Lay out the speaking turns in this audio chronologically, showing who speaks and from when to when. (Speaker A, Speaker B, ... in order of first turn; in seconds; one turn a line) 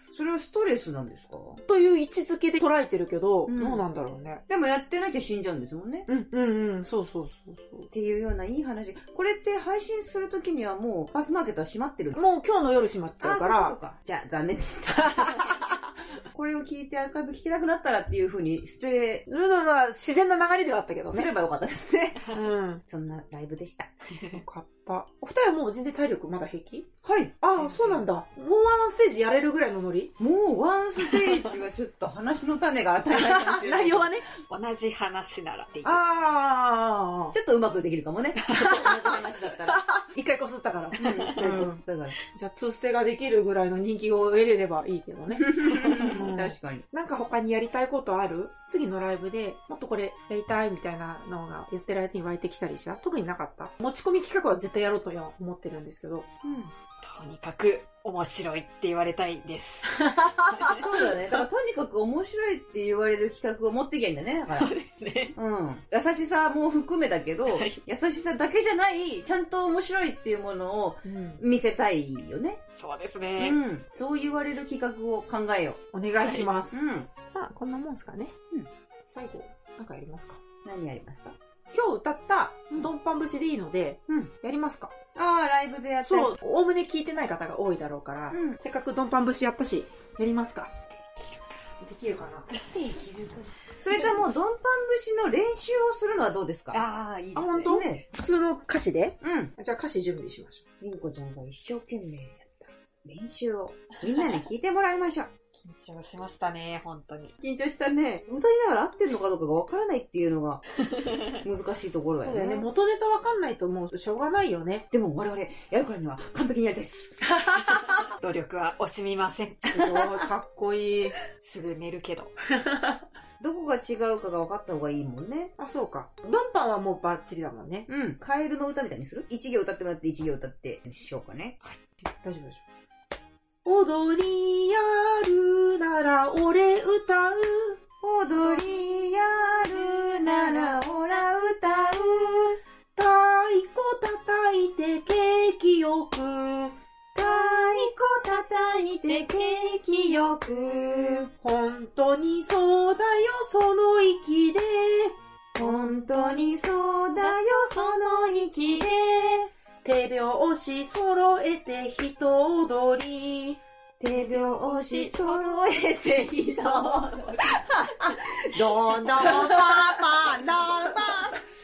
Speaker A: 0.1-1.6
Speaker B: 1.7-4.4
Speaker A: 3.5-3.8
Speaker A: 4.5-6.1
Speaker B: 6.1-7.9
Speaker A: 7.9-12.2
Speaker B: 12.1-13.8
Speaker A: 13.2-15.6
Speaker B: 15.0-15.5
Speaker A: 16.3-19.2
Speaker B: 19.3-21.3
Speaker A: 21.1-22.3
Speaker B: 22.3-22.8
Speaker A: 22.9-23.9
Speaker C: 24.1-24.4
Speaker B: 24.3-26.9
Speaker A: 27.0-27.3
Speaker B: 27.4-30.1
Speaker C: 27.5-28.0
Speaker A: 30.2-34.1
Speaker C: 31.0-31.5
Speaker B: 33.1-34.2
Speaker C: 34.5-36.0
Speaker B: 35.9-37.3
Speaker A: 37.3-39.8
Speaker B: 38.5-56.3
Speaker C: 41.0-41.4
Speaker A: 41.0-42.1
Speaker A: 45.4-46.9
Speaker C: 45.6-46.2
Speaker A: 56.4-56.7
Speaker C: 57.0-60.8
Speaker B: 59.9-61.4
Speaker A: 60.7-64.7
Speaker C: 64.5-65.3
Speaker A: 65.3-72.6
Speaker C: 67.5-67.8
Speaker B: 71.0-71.4
Speaker C: 72.8-73.6
Speaker A: 73.4-75.8
Speaker B: 75.9-78.3
Speaker C: 76.1-76.5
Speaker A: 76.7-77.1
Speaker B: 79.1-80.4
Speaker A: 80.6-81.4
Speaker B: 81.7-84.9
Speaker A: 85.1-86.4
Speaker B: 86.0-90.7
Speaker A: 88.3-88.6
Speaker C: 90.9-91.7
Speaker B: 91.8-92.5
Speaker A: 92.6-96.8
Speaker C: 96.7-97.8
Speaker B: 97.3-100.6
Speaker A: 97.7-98.0
Speaker A: 99.2-99.5
Speaker A: 100.8-105.3
Speaker C: 105.5-107.3
Speaker A: 107.4-110.6
Speaker C: 110.8-111.4
Speaker A: 111.4-112.7
Speaker B: 112.2-114.8
Speaker A: 114.9-118.0
Speaker B: 117.2-117.8
Speaker C: 118.1-119.9
Speaker B: 119.7-121.2
Speaker C: 121.4-122.3
Speaker B: 122.5-123.0
Speaker A: 123.4-125.5
Speaker B: 125.6-127.9
Speaker A: 127.9-131.6
Speaker B: 132.2-132.6
Speaker B: 133.6-137.8
Speaker A: 138.0-142.6
Speaker B: 142.9-146.8
Speaker A: 147.1-151.3
Speaker B: 151.4-155.2
Speaker A: 155.6-159.5
Speaker B: 159.8-163.6
Speaker A: 164.0-171.4
Speaker C: 164.7-165.9
Speaker B: 169.2-170.0